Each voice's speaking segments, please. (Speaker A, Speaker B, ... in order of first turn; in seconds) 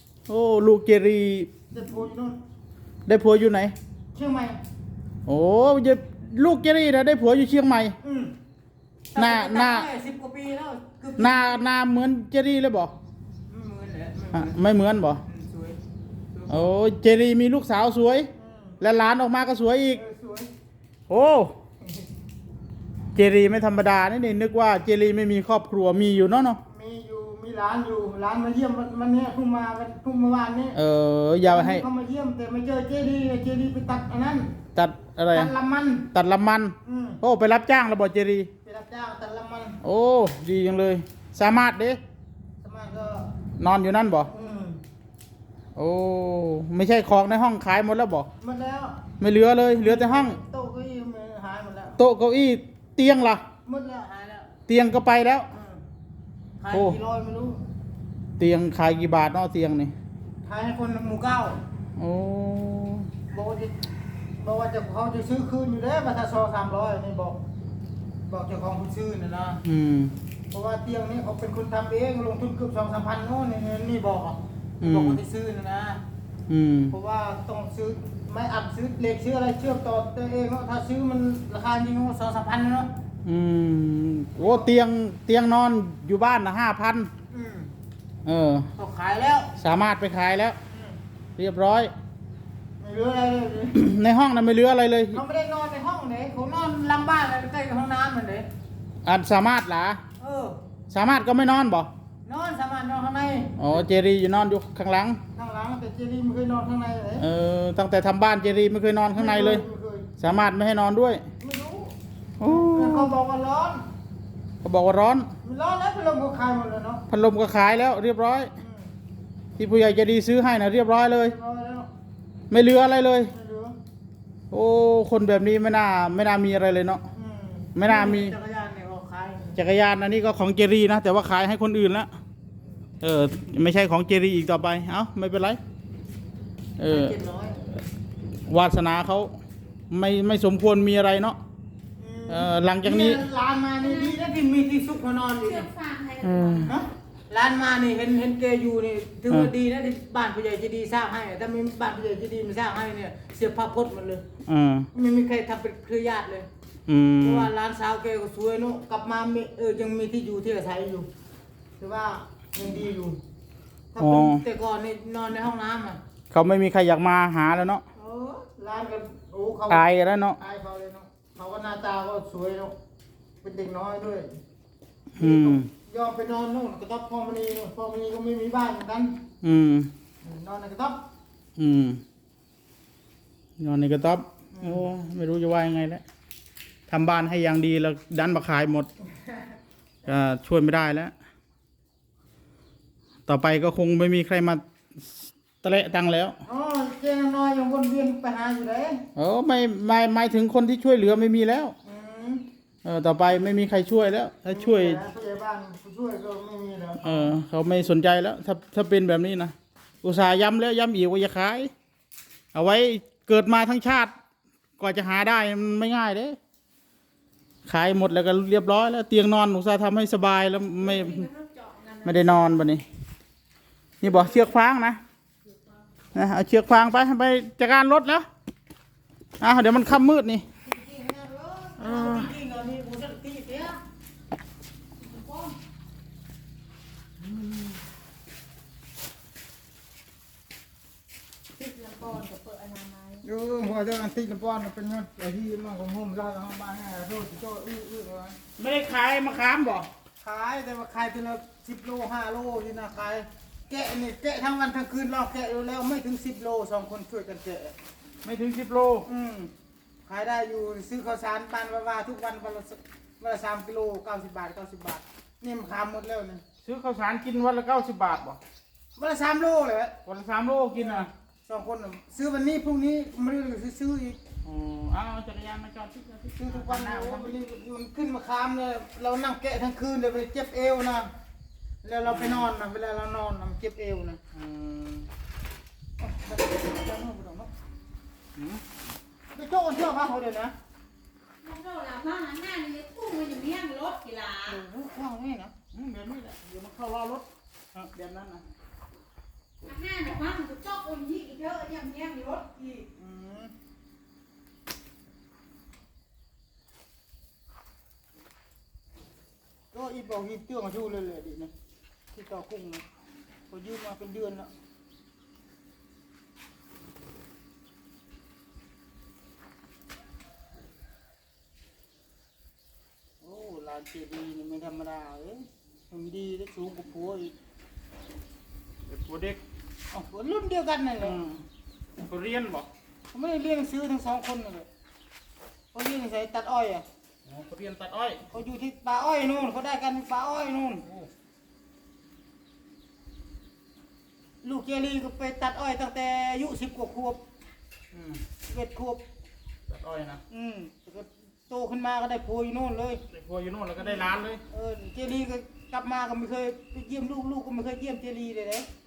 Speaker A: 0.3-1.5, 3.1-3.8, 5.3-8.0, 9.2-9.9, 11.2-12.9, 14.3-15.2, 16.5-18.3, 18.8-20.0, 21.1-21.5, 23.1-26.6, 30.8-31.9, 34.8-35.5, 36.1-38.5, 39.8-42.0, 43.6-44.3, 45.8-48.3, 49.2-50.4, 52.0-53.4, 54.7-55.5, 56.7-57.0, 58.4-59.9, 62.0-63.1, 69.7-70.2, 74.8-75.2, 76.5-77.0, 83.2-87.1, 88.3-88.7, 89.6-90.6, 91.4-91.9, 93.7-95.2, 99.0-100.0, 100.9-101.9, 103.6-105.2, 107.2-109.7, 110.2-111.2, 112.4-113.1, 114.6-115.3, 117.1-118.5, 119.6-121.3, 122.5-123.3, 124.5-127.0, 127.8-128.3, 129.6-132.1, 133.0-135.6, 136.8-137.2, 138.5-139.3, 139.9-141.4, 142.3-143.2, 146.2-146.7, 154.5-154.9, 156.9-157.5, 164.0-164.4, 166.3-167.8, 169.7-170.4, 175.2-175.7, 179.4-179.9, 181.6-182.0, 183.6-186.0, 186.9-188.9, 190.1-191.1, 193.3-196.4, 199.2-201.7, 202.8-205.0, 207.0-211.7, 212.5-214.1, 214.8-216.4, 217.7-221.3, 222.1-222.8, 224.0-225.0, 226.2-228.3, 229.4-230.4, 231.8-232.3, 237.2-237.6, 248.6-249.9, 258.2-259.1, 266.6-268.4, 270.1-271.1, 274.4-277.4, 282.1-282.5, 284.3-285.1, 288.4-288.6, 295.7-298.4, 328.9-329.4, 331.0-331.4, 332.0-332.7, 337.3-338.2, 347.9-348.2, 349.7-350.2, 353.1-354.4
Speaker B: 1.7-2.4, 4.1-4.6, 8.0-8.3, 9.1-11.7, 13.5-14.6, 15.2-15.8, 16.3-16.7, 18.4-18.9, 19.9-20.5, 26.7-30.8, 31.4-34.5, 35.3-36.1, 36.9-37.2, 38.6-39.8, 42.6-43.3, 44.2-44.8, 48.4-49.0, 49.8-52.0, 53.7-54.6, 55.5-55.8, 56.6-57.6, 60.5-61.6, 63.3-63.7, 64.4-67.4, 68.3-69.6, 70.5-76.0, 76.9-82.9, 84.4-84.7, 87.3-87.7, 88.8-89.5, 90.7-91.0, 92.8-93.8, 95.1-98.5, 100.2-100.6, 102.2-103.5, 105.3-107.3, 109.2-110.1, 111.4-113.8, 115.4-117.0, 118.6-118.9, 121.2-121.9, 123.3-123.8, 127.1-129.6, 136.9-137.7, 142.0-145.7, 146.7-154.2, 154.9-156.5, 157.2-161.1, 161.8-163.2, 163.9-166.0, 168.0-172.7, 173.4-174.4, 175.2-179.2, 180.2-181.0, 184.5-184.9, 196.5-199.0, 201.8-202.5, 204.5-207.3, 230.7-233.8, 243.2-248.4, 250.2-257.8, 259.1-259.5, 260.1-266.4, 269.0-270.0, 270.7-274.2, 276.4-281.1, 281.8-284.2, 286.0-287.5, 289.3-290.5, 294.4-295.6, 303.0-303.5, 309.7-311.5, 312.1-312.8, 313.5-314.5, 323.2-327.3, 329.9-331.2, 333.1-334.7, 335.7-336.9, 338.3-340.9, 344.4-347.2, 348.5-349.0, 350.3-353.0, 353.9-358.7
Speaker C: 143.8-144.2, 145.4-146.7, 220.8-222.5, 241.6-243.2, 291.4-294.6, 299.6-302.9